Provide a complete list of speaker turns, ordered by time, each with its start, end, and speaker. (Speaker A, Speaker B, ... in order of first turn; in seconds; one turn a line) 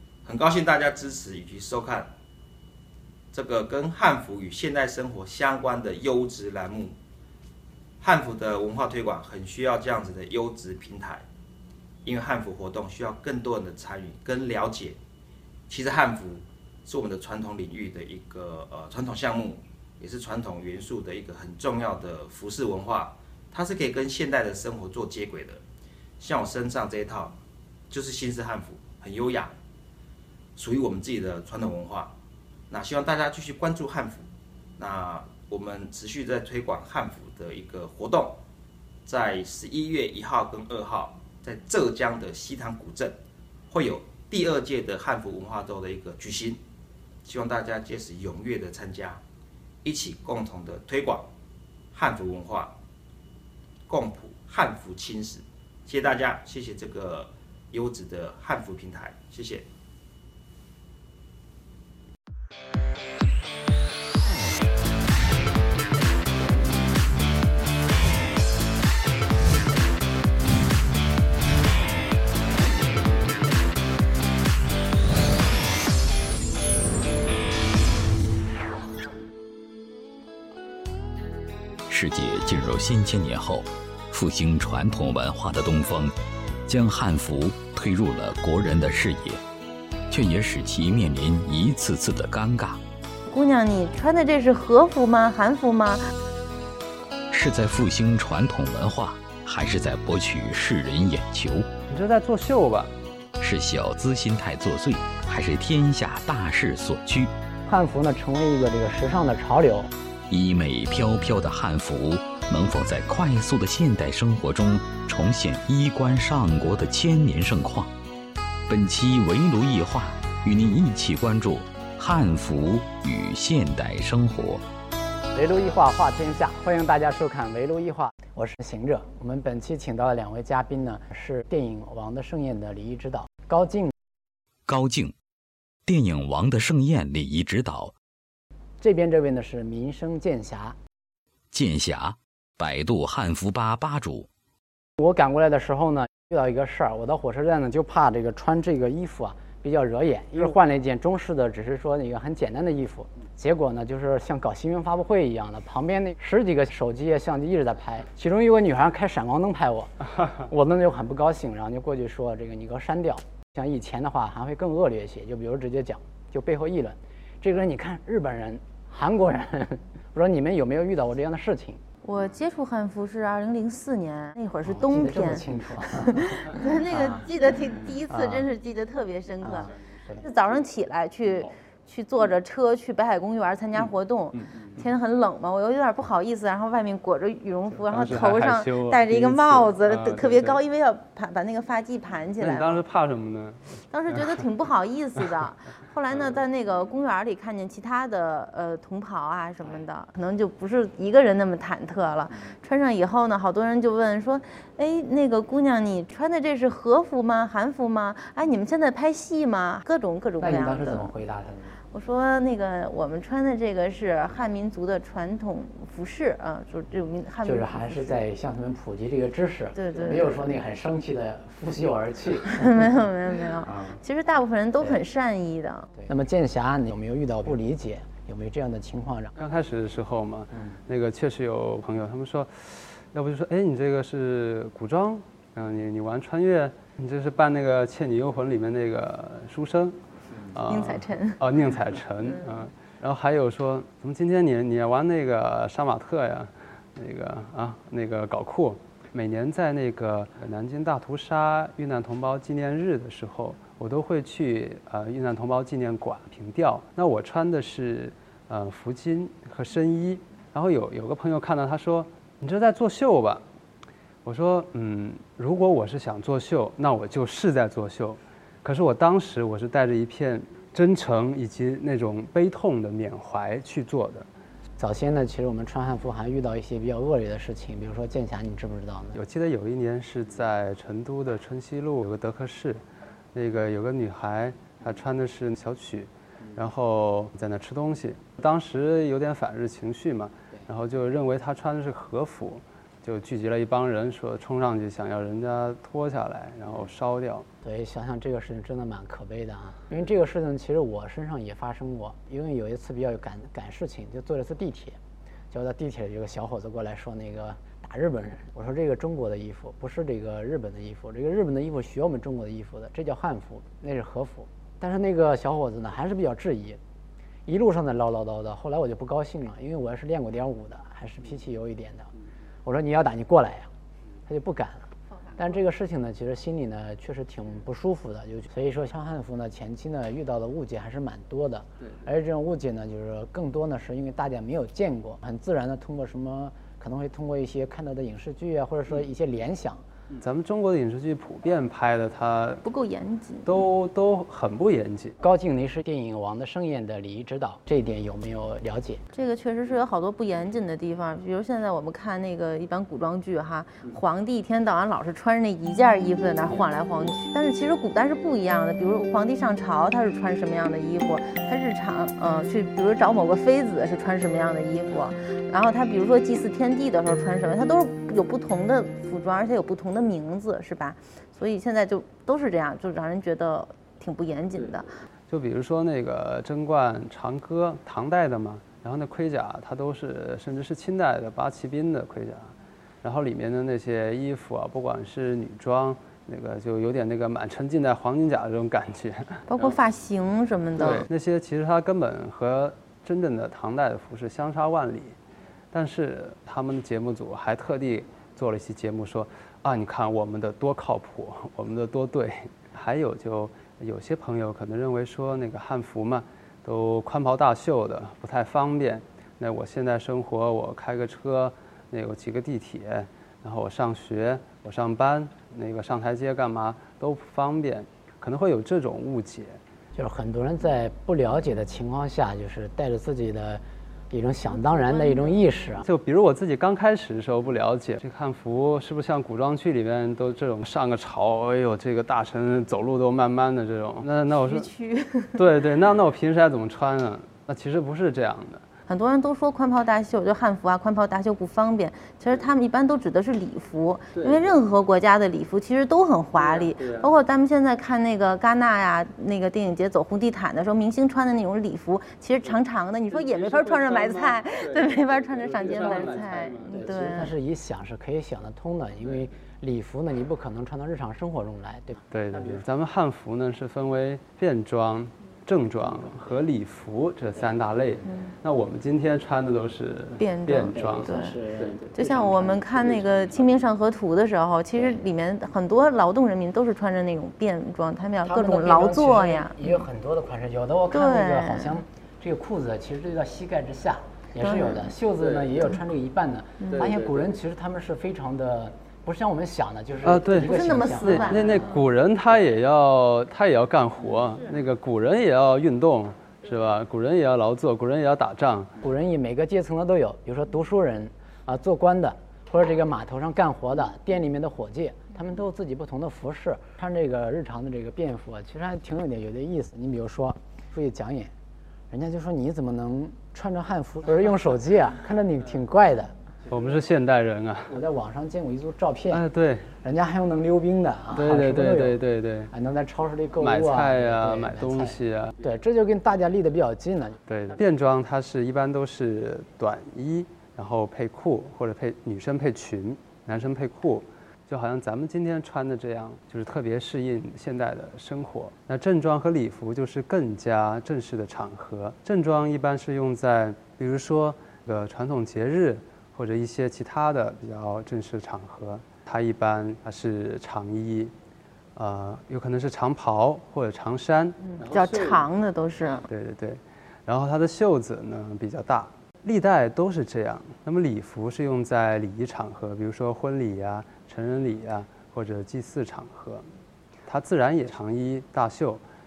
Speaker A: 0.2-2.1
Speaker A: 3.3-7.0
Speaker A: 8.0-11.2
Speaker A: 12.0-15.0
Speaker A: 15.7-25.6
Speaker A: 26.2-27.4
Speaker A: 27.9-29.5
Speaker A: 30.6-32.1
Speaker A: 32.7-34.3
Speaker A: 34.8-38.4
Speaker A: 39.1-43.2
Speaker A: 43.7-46.6
Speaker A: 47.2-49.2
Speaker A: 49.8-51.3
Speaker A: 51.9-52.7
Speaker A: 53.9-59.7
Speaker B: 81.9-86.1
Speaker B: 86.7-89.4
Speaker B: 90.1-92.8
Speaker C: 93.3-96.0
Speaker B: 97.3-101.7
Speaker D: 101.9-102.9
Speaker B: 103.4-107.3
Speaker E: 107.7-109.9
Speaker B: 110.3-117.9
Speaker B: 118.7-124.6
Speaker E: 125.3-133.9
Speaker B: 134.7-135.2
Speaker B: 135.9-137.9
Speaker E: 138.8-140.8
Speaker B: 141.5-144.3
Speaker E: 145.0-171.8
Speaker C: 172.0-175.5
Speaker E: 174.7-177.3
Speaker C: 176.0-192.8
Speaker E: 178.1-178.5
Speaker E: 179.4-180.2
Speaker D: 187.9-190.6
Speaker D: 192.4-194.5
Speaker C: 193.9-211.1
Speaker E: 210.4-211.8
Speaker C: 211.9-218.2
Speaker E: 217.4-222.9
Speaker C: 219.8-220.4
Speaker C: 222.5-225.9
Speaker E: 223.7-224.0
Speaker E: 226.1-229.3
Speaker D: 229.4-240.0
Speaker D: 240.5-263.4
Speaker C: 240.7-241.4
Speaker D: 264.2-274.3
Speaker E: 274.8-279.2
Speaker D: 279.1-282.8
Speaker D: 283.3-297.5
Speaker E: 297.6-305.0
Speaker E: 305.5-316.8
Speaker E: 317.5-322.1
Speaker E: 322.6-323.7
Speaker E: 324.3-339.8
Speaker D: 340.2-342.6
Speaker C: 342.6-343.6
Speaker D: 343.4-345.2
Speaker E: 345.2-349.0
Speaker C: 349.1-374.9
Speaker D: 375.3-389.6
Speaker C: 389.5-391.1
Speaker D: 390.8-395.1
Speaker D: 395.7-419.6
Speaker E: 419.9-425.8
Speaker D: 425.8-434.7
Speaker C: 434.3-435.4
Speaker D: 435.4-438.6
Speaker C: 438.9-457.3
Speaker D: 444.1-444.4
Speaker D: 446.4-447.1
Speaker D: 453.2-457.1
Speaker E: 456.9-462.6
Speaker D: 462.1-471.9
Speaker C: 470.2-471.4
Speaker E: 470.9-472.1
Speaker C: 471.9-479.8
Speaker E: 478.2-491.8
Speaker C: 480.9-481.8
Speaker C: 484.4-484.9
Speaker C: 486.6-486.9
Speaker D: 490.0-498.7
Speaker C: 490.4-491.5
Speaker E: 498.8-511.3
Speaker E: 511.9-516.1
Speaker D: 516.5-517.8
Speaker E: 517.7-519.2
Speaker D: 519.1-519.7
Speaker E: 519.8-522.0
Speaker D: 521.1-522.5
Speaker E: 522.5-527.2
Speaker D: 523.4-525.4
Speaker D: 527.3-551.1
Speaker D: 551.8-555.2
Speaker C: 554.5-556.1
Speaker D: 556.1-566.5
Speaker D: 567.1-568.8